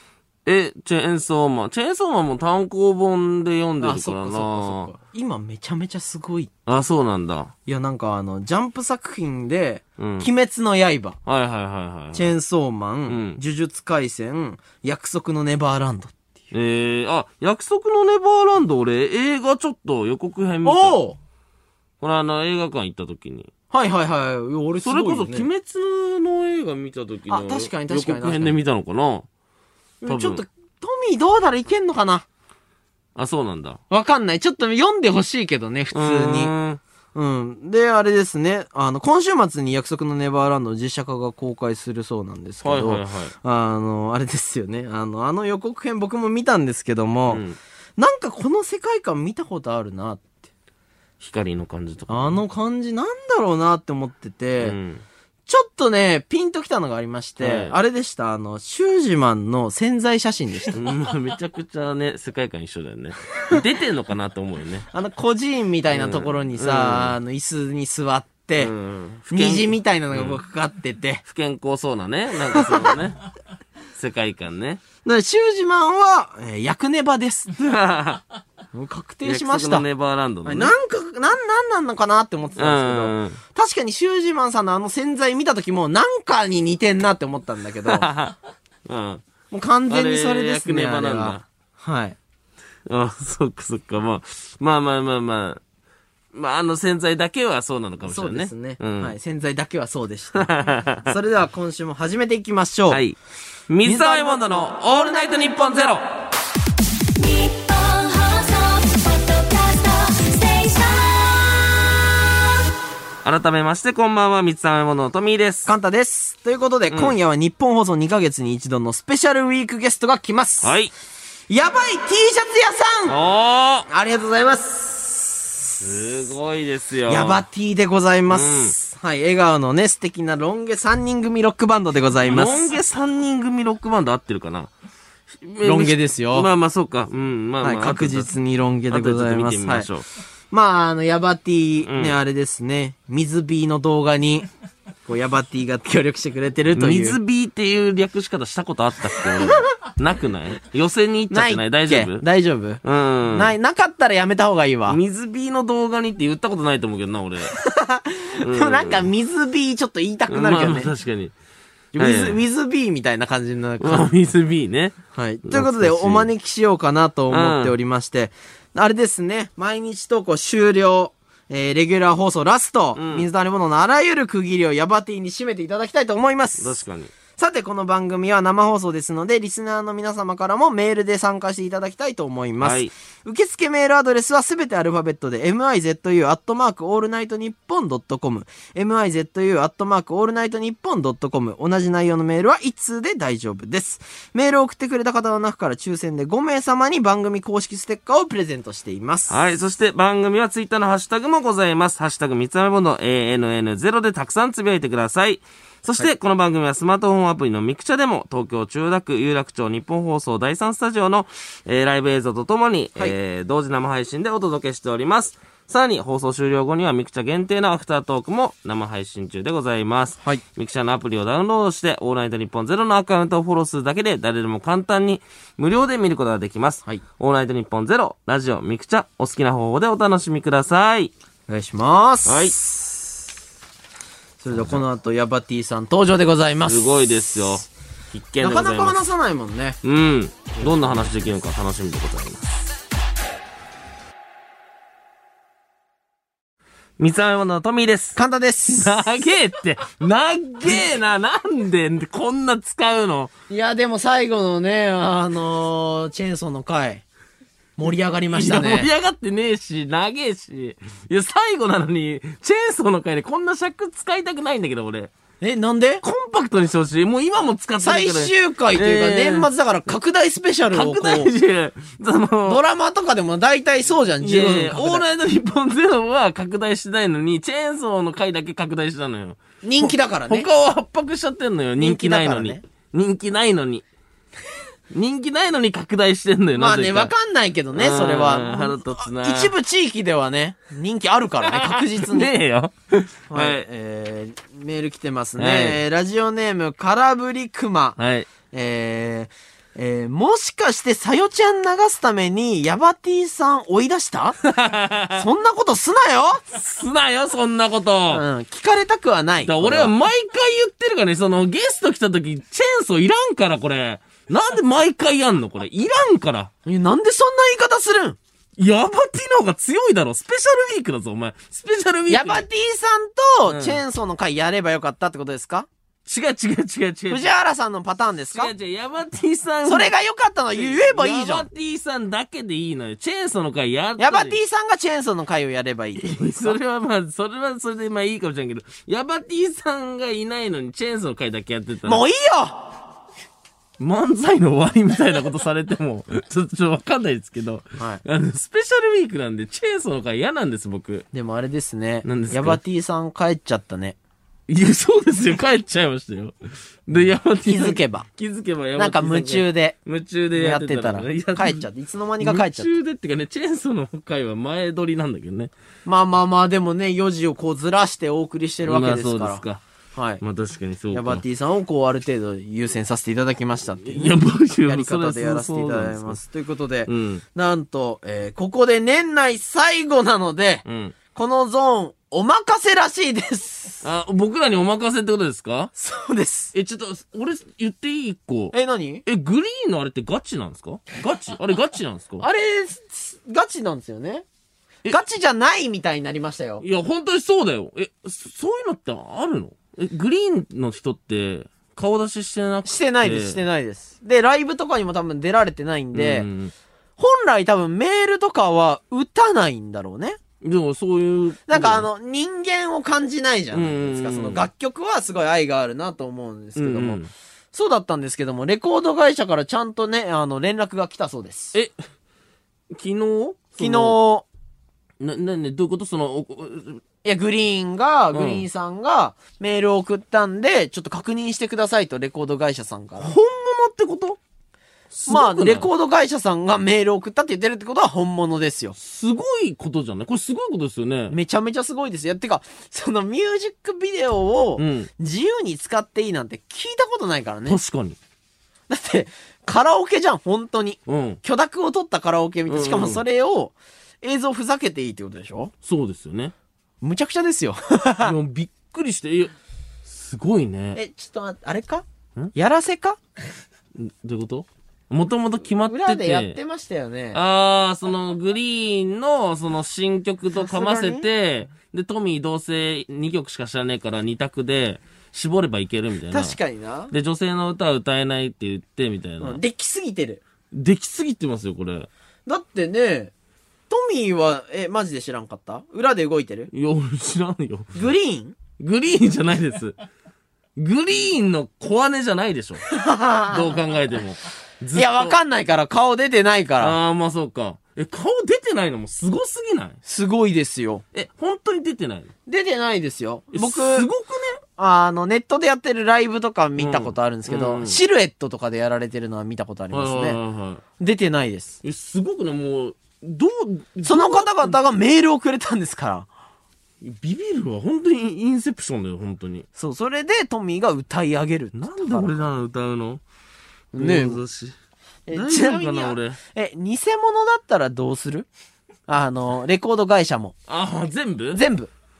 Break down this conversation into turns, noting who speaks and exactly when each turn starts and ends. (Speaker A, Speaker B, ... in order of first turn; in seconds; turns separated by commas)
Speaker A: 0.5-4.9, Speaker B: 3.8-6.5, Speaker A: 6.7-7.5, Speaker B: 7.7-11.2, Speaker A: 10.0-10.3, Speaker A: 11.2-12.3, Speaker B: 12.1-16.2, Speaker A: 13.1-13.4, Speaker A: 16.5-21.0, Speaker B: 20.6-21.2, Speaker A: 22.0-23.5, Speaker B: 23.7-25.5, Speaker A: 24.8-29.3, Speaker B: 27.3-28.6, Speaker B: 30.0-32.2, Speaker A: 30.0-30.4, Speaker A: 33.1-33.8, Speaker B: 33.9-36.5, Speaker A: 35.9-36.8, Speaker B: 37.1-47.4, Speaker A: 42.6-43.3, Speaker A: 47.3-47.6, Speaker B: 48.0-50.3, Speaker A: 51.2-52.4, Speaker B: 52.1-54.8, Speaker A: 54.6-55.0, Speaker B: 55.5-60.8, Speaker A: 57.4-57.7, Speaker A: 60.7-64.9, Speaker B: 64.9-68.7, Speaker A: 65.9-67.2, Speaker A: 68.6-70.4, Speaker B: 69.3-71.2, Speaker A: 71.2-73.3, Speaker B: 72.5-73.0, Speaker A: 73.9-74.8, Speaker B: 75.0-77.5, Speaker A: 77.6-78.2, Speaker B: 78.7-79.9, Speaker A: 79.2-80.7, Speaker B: 80.4-88.1, Speaker A: 82.6-83.4, Speaker A: 87.8-88.3, Speaker A: 88.9-89.2, Speaker B: 89.5-92.2, Speaker A: 89.9-91.4, Speaker A: 92.9-95.6, Speaker A: 96.3-99.1, Speaker B: 98.0-100.5, Speaker A: 100.3-101.1, Speaker B: 101.0-103.0, Speaker A: 102.9-103.2, Speaker A: 103.7-106.0, Speaker B: 103.8-104.7, Speaker C: 107.2-111.7, Speaker A: 113.2-115.7, Speaker B: 115.6-120.7, Speaker A: 116.9-117.2, Speaker A: 120.6-120.9, Speaker B: 121.5-123.2, Speaker A: 123.1-123.9, Speaker B: 123.9-125.8, Speaker A: 125.8-127.4, Speaker B: 127.1-132.7, Speaker A: 128.3-128.7, Speaker A: 132.2-134.7, Speaker A: 135.4-138.3, Speaker B: 135.6-136.5, Speaker B: 137.6-139.9, Speaker A: 138.9-140.1, Speaker B: 140.5-144.5, Speaker A: 141.8-142.2, Speaker B: 145.1-147.2, Speaker A: 146.7-152.2, Speaker B: 151.3-152.8, Speaker A: 152.8-153.5, Speaker B: 153.3-155.0, Speaker A: 154.9-157.6, Speaker B: 157.5-160.9, Speaker A: 158.4-159.1, Speaker A: 160.3-161.3, Speaker B: 161.9-164.1, Speaker A: 162.0-162.4, Speaker A: 163.8-166.3, Speaker B: 165.1-176.8, Speaker A: 167.3-167.7, Speaker A: 172.9-173.3, Speaker A: 176.6-177.1, Speaker B: 177.4-199.4, Speaker A: 182.6-182.9, Speaker A: 199.3-231.1, Speaker B: 231.5-233.2, Speaker A: 232.2-232.6, Speaker B: 234.4-236.9, Speaker A: 234.5-234.8, Speaker A: 236.6-239.0, Speaker B: 238.4-239.8, Speaker A: 239.8-242.5, Speaker B: 240.6-241.0, Speaker A: 247.0-253.3, Speaker B: 248.2-249.2, Speaker B: 253.5-257.0, Speaker B: 257.8-258.9, Speaker A: 258.3-265.1, Speaker B: 265.4-266.0, Speaker A: 266.0-269.5, Speaker B: 267.8-271.3, Speaker A: 270.7-272.6, Speaker B: 272.4-275.0, Speaker A: 274.2-283.8, Speaker B: 279.6-280.5, Speaker B: 281.8-282.6, Speaker A: 284.9-287.1, Speaker B: 286.6-292.3, Speaker A: 287.7-289.5, Speaker A: 291.5-293.6, Speaker B: 293.3-298.0, Speaker A: 295.4-295.8, Speaker A: 298.0-298.3, Speaker B: 298.5-304.4, Speaker A: 304.4-305.2, Speaker B: 305.1-306.4, Speaker A: 306.5-308.2, Speaker B: 308.1-309.9, Speaker A: 309.4-316.5, Speaker B: 316.6-318.2, Speaker A: 318.6-322.4, Speaker B: 322.1-325.7, Speaker A: 323.5-323.8, Speaker A: 326.1-327.3, Speaker B: 327.1-328.5, Speaker A: 328.3-329.9, Speaker B: 329.6-331.5, Speaker A: 330.5-334.4, Speaker B: 334.0-336.6, Speaker A: 336.0-342.0, Speaker B: 341.8-342.7, Speaker A: 343.8-351.1, Speaker B: 351.1-354.0, Speaker A: 352.0-352.6, Speaker A: 354.5-356.3, Speaker A: 356.9-361.6, Speaker B: 357.4-358.1, Speaker B: 358.8-359.8, Speaker B: 360.3-362.7, Speaker A: 362.2-365.5, Speaker B: 365.8-369.4, Speaker A: 368.6-369.6, Speaker B: 369.9-370.2, Speaker A: 370.2-371.2, Speaker B: 370.9-383.8, Speaker A: 373.8-376.2, Speaker A: 376.9-377.2, Speaker A: 380.6-380.9, Speaker A: 383.8-385.7, Speaker B: 385.8-386.5, Speaker A: 386.5-388.5, Speaker B: 388.5-389.0, Speaker A: 389.0-392.2, Speaker B: 392.2-394.2, Speaker B: 394.9-396.6, Speaker A: 396.6-403.4, Speaker B: 402.6-406.3, Speaker A: 405.9-406.5, Speaker B: 407.0-410.2, Speaker A: 410.4-411.9, Speaker B: 411.5-417.0, Speaker A: 413.5-414.5, Speaker A: 416.6-417.1, Speaker B: 417.5-421.5, Speaker A: 422.7-424.0, Speaker B: 423.6-424.2, Speaker A: 425.0-426.8, Speaker B: 427.0-433.1, Speaker A: 428.1-428.4, Speaker A: 433.0-434.2, Speaker A: 434.9-435.7, Speaker B: 435.1-438.8, Speaker A: 438.7-441.2, Speaker B: 441.1-447.6, Speaker A: 444.6-444.9, Speaker A: 447.5-448.0, Speaker B: 448.7-455.5, Speaker A: 450.9-451.2, Speaker A: 452.5-453.0, Speaker A: 455.6-456.3, Speaker B: 456.8-458.1, Speaker A: 458.0-459.3, Speaker A: 459.9-460.8, Speaker B: 460.7-463.0, Speaker A: 463.8-466.4, Speaker B: 465.6-467.2, Speaker A: 467.1-476.4, Speaker B: 470.3-471.1, Speaker B: 476.1-476.9, Speaker A: 476.9-479.4, Speaker B: 479.2-480.2, Speaker A: 480.5-481.9, Speaker B: 482.2-483.1, Speaker B: 483.7-486.5, Speaker A: 486.5-487.8, Speaker B: 487.7-488.4, Speaker A: 488.6-489.8, Speaker A: 490.6-492.6, Speaker B: 492.7-493.6, Speaker A: 493.3-495.2, Speaker B: 494.7-496.8, Speaker A: 496.6-499.8, Speaker B: 499.8-500.8, Speaker A: 500.9-502.1, Speaker B: 502.3-503.9, Speaker A: 503.3-504.4, Speaker B: 504.6-510.2, Speaker A: 506.6-507.8, Speaker A: 509.7-510.6, Speaker B: 510.8-511.6, Speaker A: 511.6-514.6, Speaker B: 513.8-516.1, Speaker A: 516.8-519.5, Speaker B: 519.6-522.3, Speaker A: 521.5-523.0, Speaker B: 523.7-524.2, Speaker A: 523.7-524.5, Speaker B: 525.1-528.3, Speaker A: 525.1-526.2, Speaker B: 528.9-530.3, Speaker A: 530.5-531.4, Speaker B: 531.3-531.7